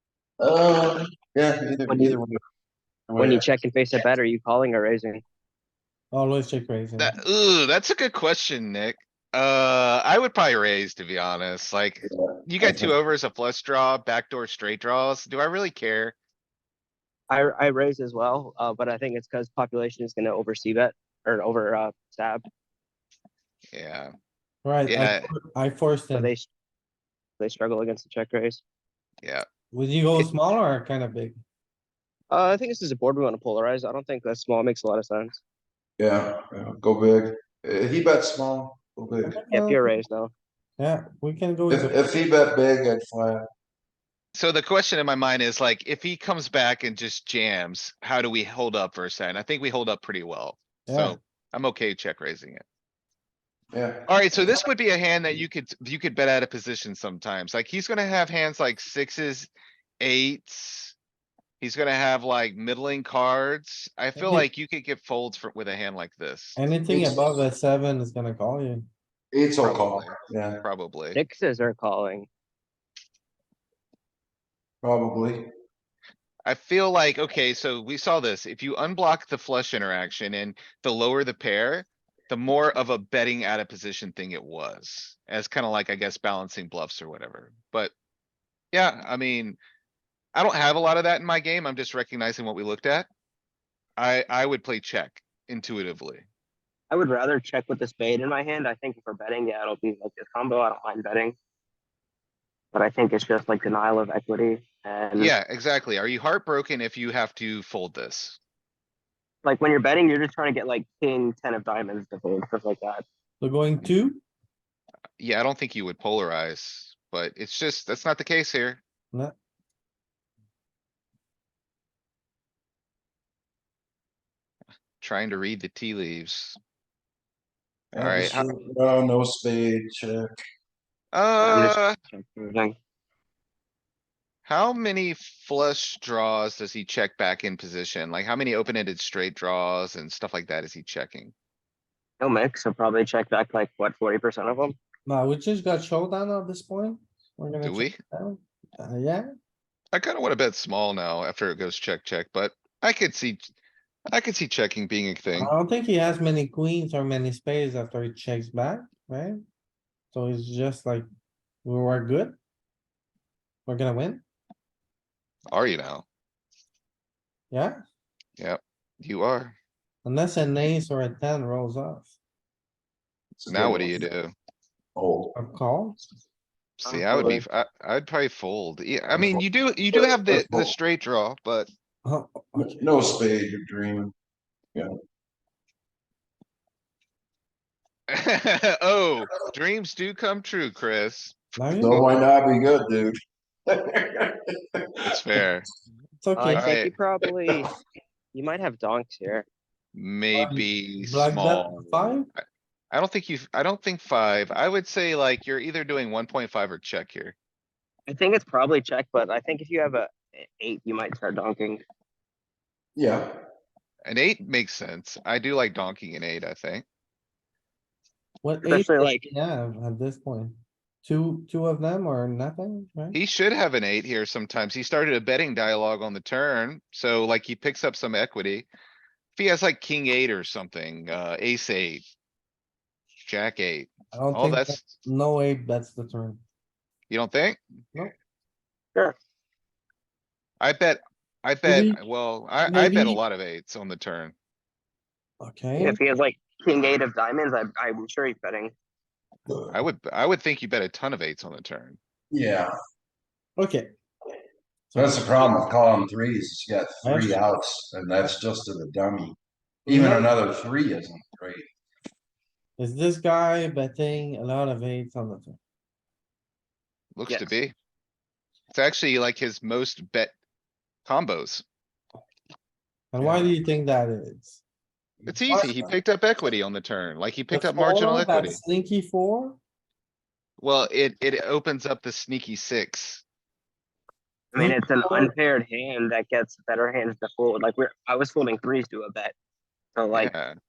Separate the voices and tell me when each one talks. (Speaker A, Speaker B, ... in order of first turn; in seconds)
Speaker A: 0.4-2.4, 3.1-3.4, 12.0-12.9, 36.0-39.4, 41.7-43.4, 53.7-54.5, 66.9-67.2, 69.3-70.6, 74.8-75.5, 127.9-130.3, 173.4-174.1, 175.0-175.4, 179.1-180.7, 182.6-184.1, 191.8-193.2, 193.7-194.3, 213.0-213.4, 249.5-249.7, 252.3-252.7, 254.9-261.7
Speaker B: 1.9-2.2, 3.2-5.2, 17.3-22.4, 26.1-26.5, 27.4-28.6, 32.3-35.4, 39.5-40.3, 71.2-72.3, 96.9-101.4, 102.7-105.3, 109.4-113.0, 131.4-132.8, 142.2-144.8, 176.8-177.4, 196.4-197.8, 198.3-199.5, 208.1-211.8, 218.7-219.3, 245.8-248.7, 284.5-289.3, 289.9-290.3
Speaker C: 6.1-7.1, 24.6-26.3, 29.7-31.4, 39.2-39.8, 40.8-42.2, 50.9-51.2, 64.2-64.5, 66.6-68.9, 113.4-114.2, 145.1-149.2, 155.3-159.4, 160.1-161.1, 161.7-162.4, 163.7-164.2, 167.5-167.8, 170.1-172.1, 175.4-176.0, 182.1-182.8, 191.6-192.0, 196.2-196.7, 200.3-202.3, 218.4-223.2, 234.1-236.4, 241.6-242.0, 242.7-243.2, 245.4-246.0, 253.6-253.9, 254.9-255.6, 257.0-257.4, 259.9-260.4, 262.8-265.6, 273.1-274.6, 275.5-275.9, 277.5-279.6, 284.6-285.3
Speaker D: 7.0-16.1, 23.7-24.1, 24.9-25.3, 44.3-52.6, 54.1-61.0, 61.6-66.6, 69.6-71.2, 76.5-87.9, 88.7-89.6, 90.3-93.1, 94.0-96.3, 105.2-108.4, 115.2-118.8, 125.0-126.6, 127.9-128.5, 131.1-131.9, 134.4-141.3, 147.6-148.0, 149.9-153.5, 154.1-155.5, 165.5-166.1, 168.4-169.6, 173.5-174.3, 176.8-181.7, 188.1-192.1, 195.1-195.7, 196.5-196.9, 199.9-207.3, 214.1-216.8, 223.1-228.7, 229.3-232.0, 233.2-234.9, 237.1-237.6, 240.6-244.3, 249.7-252.0, 267.1-267.7, 268.7-270.3, 271.0-271.6, 273.2-273.5, 275.3-278.6, 280.6-283.2, 290.1-290.6